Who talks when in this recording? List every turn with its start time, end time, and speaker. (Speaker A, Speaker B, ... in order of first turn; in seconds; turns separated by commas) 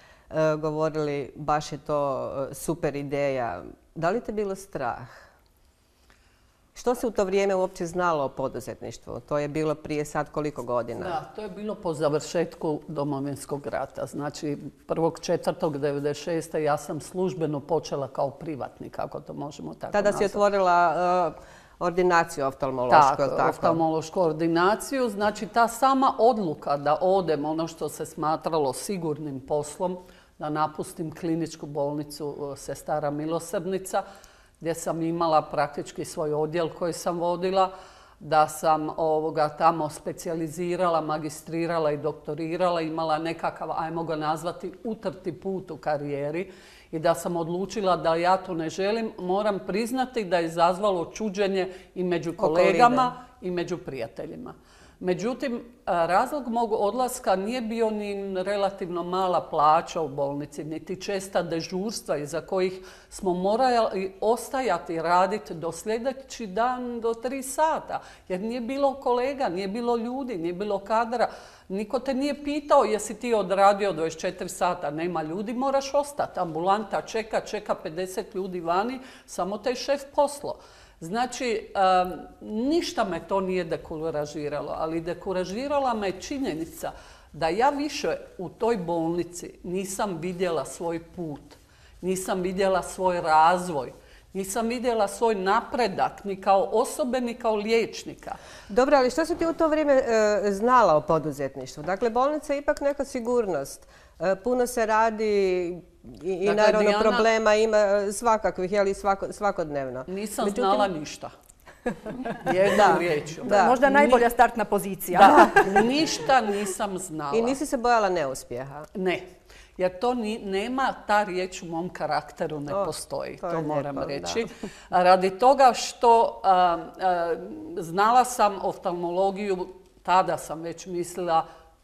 Speaker A: 0.3-5.3, Speaker A: 6.8-11.2, Speaker B: 11.0-20.4, Speaker A: 19.9-23.8, Speaker B: 22.9-34.0, Speaker B: 34.6-98.4, Speaker A: 52.4-53.1, Speaker A: 98.7-110.9, Speaker B: 106.4-107.3, Speaker B: 110.1-111.3, Speaker B: 112.3-114.2, Speaker A: 112.7-113.8, Speaker C: 113.5-115.9, Speaker B: 115.1-117.6, Speaker A: 117.3-118.9, Speaker B: 118.9-131.5, Speaker A: 122.7-124.5